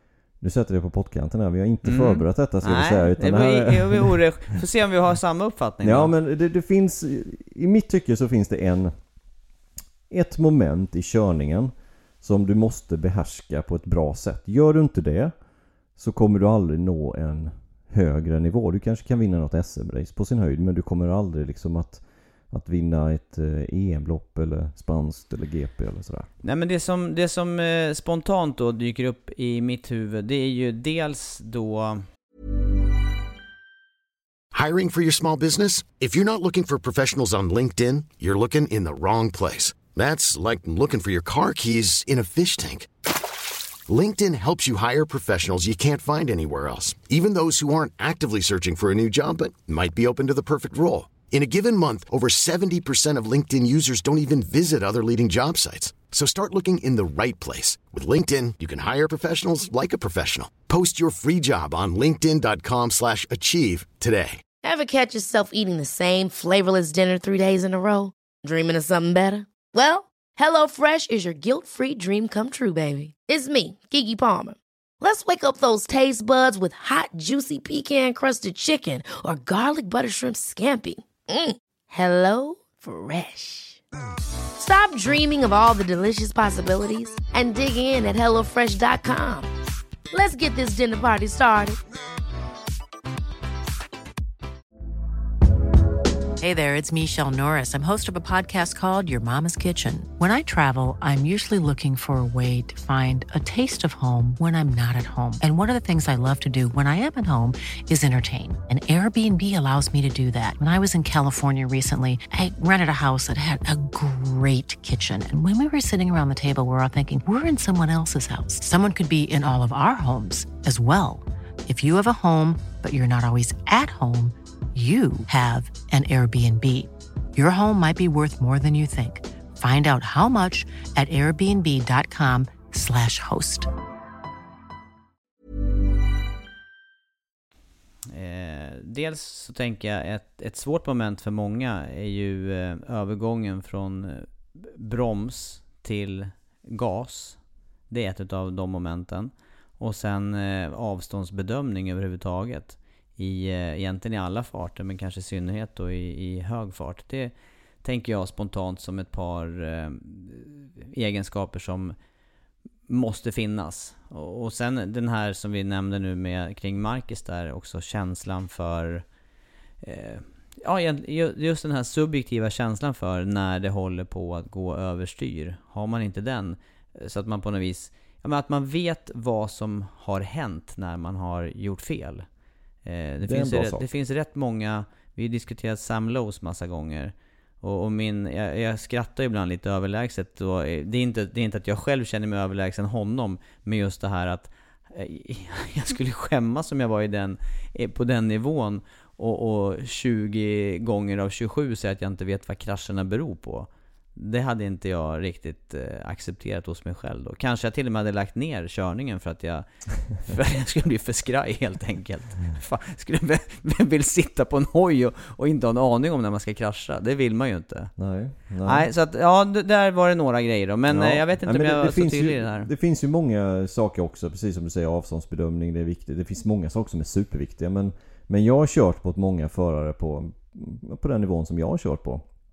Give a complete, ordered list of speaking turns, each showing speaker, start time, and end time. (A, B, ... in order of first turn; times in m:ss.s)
0:00.4-0:04.2 A
0:01.8-0:06.1 B
0:05.8-0:08.9 A
0:10.1-0:15.3 A
0:16.0-0:26.3 A
0:26.4-0:32.0 B
0:34.5-0:42.9 C
0:43.9-1:04.4 C
1:04.6-1:23.8 D
1:24.6-1:29.5 D
1:30.1-1:31.8 D
1:36.4-2:13.7 E
2:18.1-2:41.9 B
2:42.9-2:49.0 B
2:49.8-3:02.2 B
3:02.8-3:37.9 B
3:03.2-3:03.9 A
3:38.0-3:38.9 A
3:38.6-3:42.7 B
3:40.9-3:52.2 A